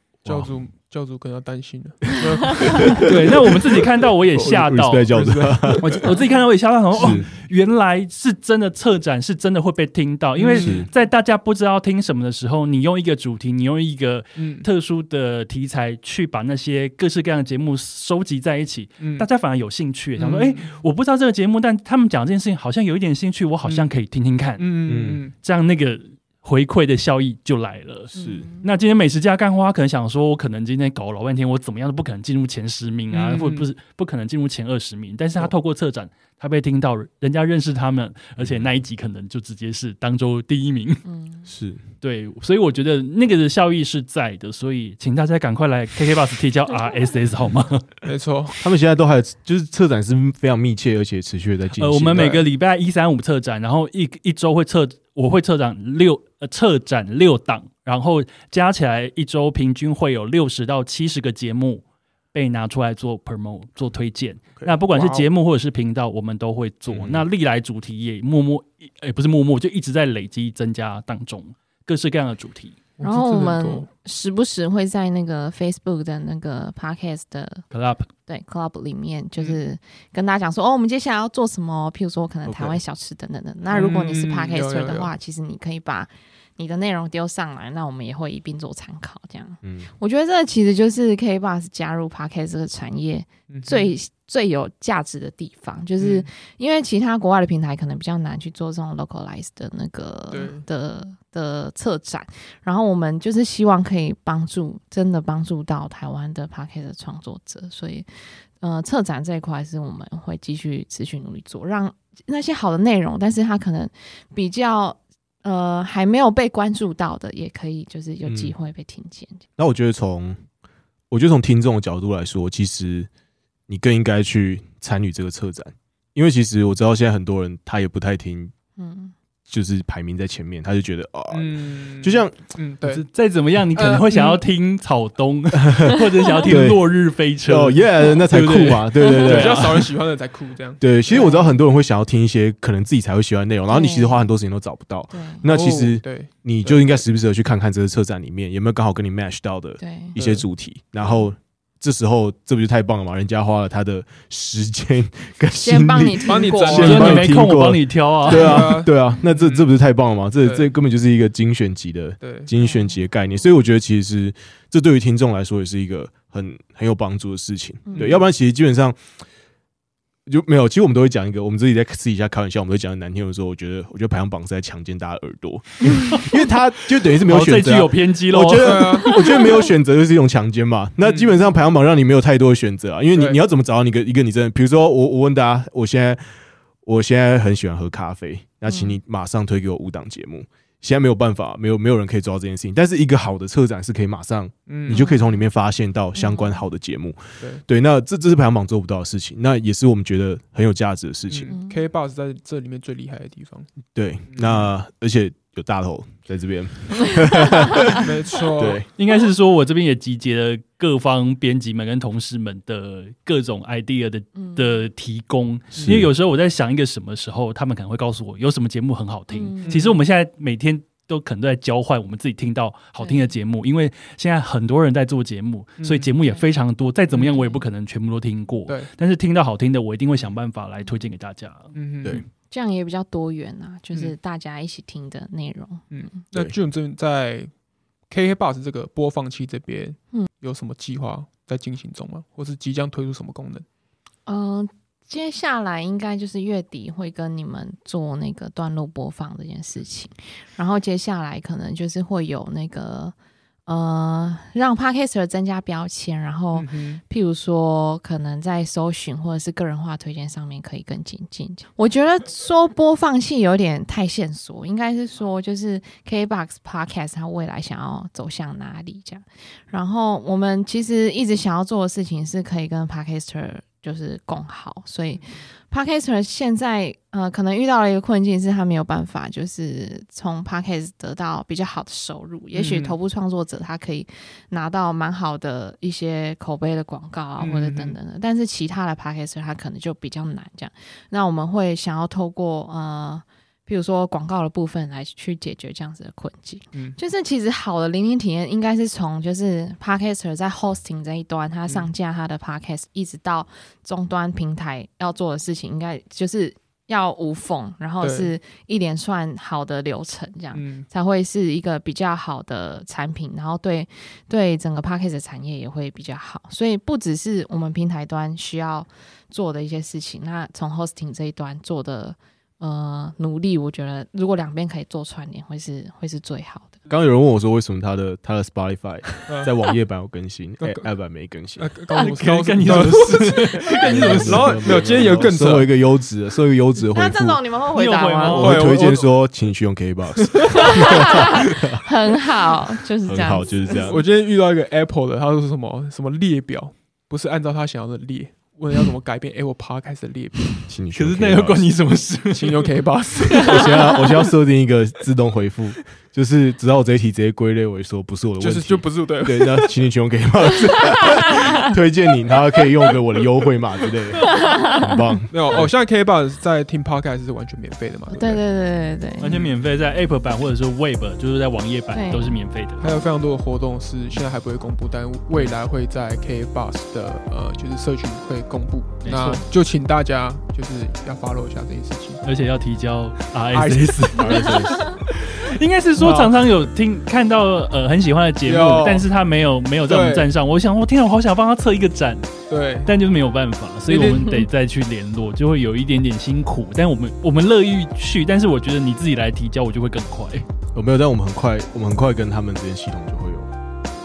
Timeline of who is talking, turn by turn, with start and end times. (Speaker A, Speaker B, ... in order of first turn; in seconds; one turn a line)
Speaker A: 0.2-0.5
Speaker B: 0.2-3.9
Speaker A: 2.6-3.0
Speaker C: 3.0-5.1
Speaker A: 4.3-6.0
Speaker B: 5.1-6.1
Speaker C: 5.8-24.8
Speaker A: 6.9-7.3
Speaker B: 10.3-10.8
Speaker A: 10.5-10.9
Speaker B: 14.4-14.7
Speaker B: 19.0-19.3
Speaker B: 20.2-20.8
Speaker B: 23.6-23.9
Speaker B: 24.6-25.3
Speaker A: 24.9-25.2
Speaker C: 25.4-28.1
Speaker A: 28.1-28.5
Speaker D: 28.1-28.6
Speaker C: 28.6-41.0
Speaker B: 33.1-33.7
Speaker A: 38.4-38.7
Speaker D: 41.0-41.5
Speaker A: 41.5-41.8
Speaker C: 42.0-47.9
Speaker B: 48.0-48.6
Speaker A: 48.6-52.4
Speaker C: 51.8-72.8
Speaker B: 52.1-52.4
Speaker B: 64.9-65.2
Speaker A: 66.9-67.2
Speaker B: 73.0-73.9
Speaker D: 73.0-77.6
Speaker C: 77.7-78.1
Speaker D: 78.3-108.1
Speaker A: 82.5-82.8
Speaker B: 83.7-85.1
Speaker A: 89.6-89.9
Speaker B: 93.5-93.9
Speaker B: 96.0-96.3
Speaker B: 100.3-100.6
Speaker D: 108.6-119.5
Speaker A: 118.2-118.5
Speaker A: 119.6-120.4
Speaker A: 121.1-123.1
Speaker A: 123.7-128.5
Speaker D: 128.8-129.1
Speaker A: 129.5-132.4
Speaker B: 131.3-133.0
Speaker C: 132.8-139.9
Speaker A: 135.6-136.8
Speaker A: 137.4-139.8
Speaker B: 139.2-141.3
Speaker A: 140.8-169.0
Speaker D: 141.1-141.6
Speaker D: 143.7-144.2
Speaker D: 145.1-145.4
Speaker B: 145.5-147.0
Speaker D: 149.8-150.2
Speaker B: 150.2-150.4
Speaker D: 155.6-157.2
Speaker B: 156.2-157.3
Speaker C: 156.7-158.8
Speaker D: 158.3-158.6
Speaker B: 158.3-159.7
Speaker B: 160.4-160.7
Speaker B: 162.2-162.5
Speaker D: 162.6-163.0
Speaker D: 167.8-168.2
Speaker B: 167.9-168.2
Speaker A: 170.2-186.2
Speaker C: 177.1-179.0
Speaker B: 178.6-179.1
Speaker D: 179.0-179.4
Speaker B: 181.0-181.3
Speaker A: 186.8-201.6
Speaker D: 188.6-189.0
Speaker B: 194.7-195.0
Speaker D: 194.9-195.3
Speaker D: 196.2-196.6
Speaker B: 201.3-203.7
Speaker D: 201.5-201.8
Speaker A: 203.9-208.9
Speaker B: 204.3-204.7
Speaker B: 207.9-208.8
Speaker C: 208.9-231.7
Speaker D: 214.4-214.8
Speaker A: 215.7-216.1
Speaker D: 219.3-220.0
Speaker B: 219.6-219.9
Speaker D: 223.0-223.3
Speaker B: 225.8-226.1
Speaker D: 227.2-227.6
Speaker B: 231.7-232.2
Speaker D: 232.5-235.9
Speaker B: 235.9-237.5
Speaker B: 238.1-243.6
Speaker D: 244.2-253.1
Speaker D: 253.7-326.8
Speaker B: 256.5-257.0
Speaker B: 282.5-282.9
Speaker B: 287.4-287.9
Speaker B: 308.0-308.3
Speaker B: 310.5-310.9
Speaker A: 326.9-331.7
Speaker B: 329.3-329.5
Speaker B: 330.6-330.9
Speaker B: 331.6-335.7
Speaker C: 331.9-334.8
Speaker A: 332.6-333.1
Speaker A: 333.8-337.4
Speaker D: 336.9-338.5
Speaker C: 337.7-338.6
Speaker B: 338.3-339.1
Speaker A: 338.3-341.8
Speaker B: 340.2-341.2
Speaker D: 340.5-343.9
Speaker A: 343.1-344.0
Speaker B: 343.8-350.6
Speaker A: 350.7-351.7
Speaker C: 350.9-353.7
Speaker B: 352.3-353.9
Speaker A: 353.4-365.7
Speaker B: 358.4-359.7
Speaker B: 365.3-368.4
Speaker D: 368.1-369.4
Speaker C: 369.2-373.0
Speaker D: 371.9-372.4
Speaker B: 372.8-382.2
Speaker C: 379.0-379.4
Speaker C: 382.2-392.3
Speaker B: 383.5-384.4
Speaker A: 384.1-384.9
Speaker B: 386.0-386.3
Speaker B: 388.4-389.1
Speaker B: 389.8-390.3
Speaker B: 392.5-392.9
Speaker C: 392.8-400.5
Speaker B: 393.9-394.4
Speaker A: 400.7-403.5